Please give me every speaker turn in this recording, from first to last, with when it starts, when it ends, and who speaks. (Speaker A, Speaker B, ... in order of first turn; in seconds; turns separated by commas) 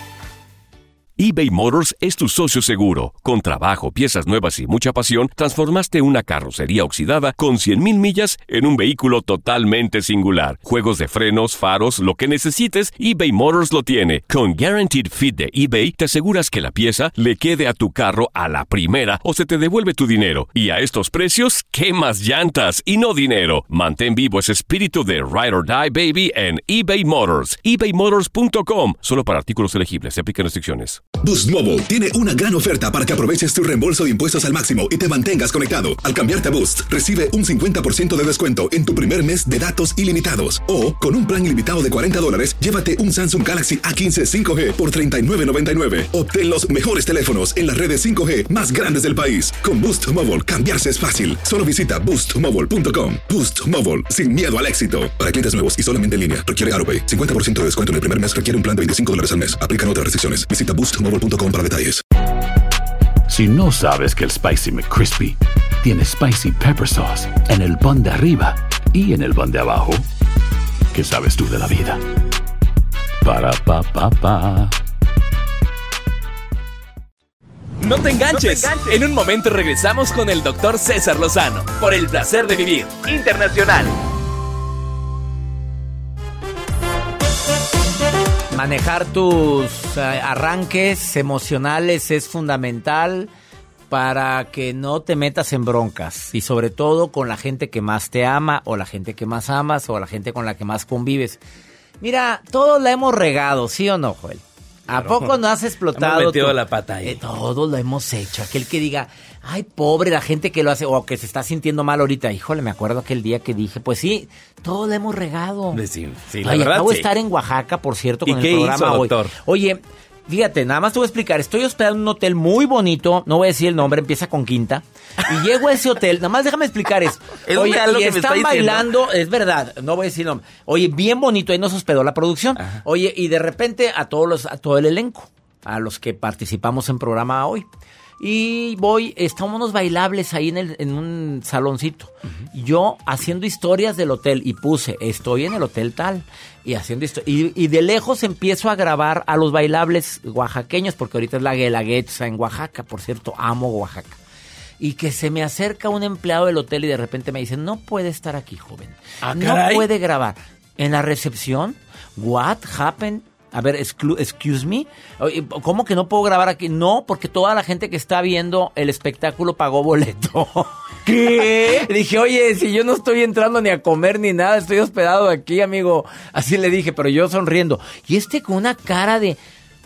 Speaker A: 1.2-31.0, Speaker B: 31.2-62.0, Speaker C: 63.3-70.0, Speaker C: 70.9-72.0, Speaker C: 73.2-74.7, Speaker D: 77.8-83.9, Speaker E: 78.3-79.0, Speaker E: 88.5-93.3, Speaker E: 93.9-101.4, Speaker E: 102.0-115.8, Speaker D: 104.9-105.3, Speaker D: 105.9-107.2, Speaker D: 115.7-117.1, Speaker E: 116.4-137.7, Speaker D: 118.2-119.3, Speaker D: 127.5-128.8, Speaker E: 138.2-154.2, Speaker E: 154.8-179.4, Speaker D: 159.2-159.8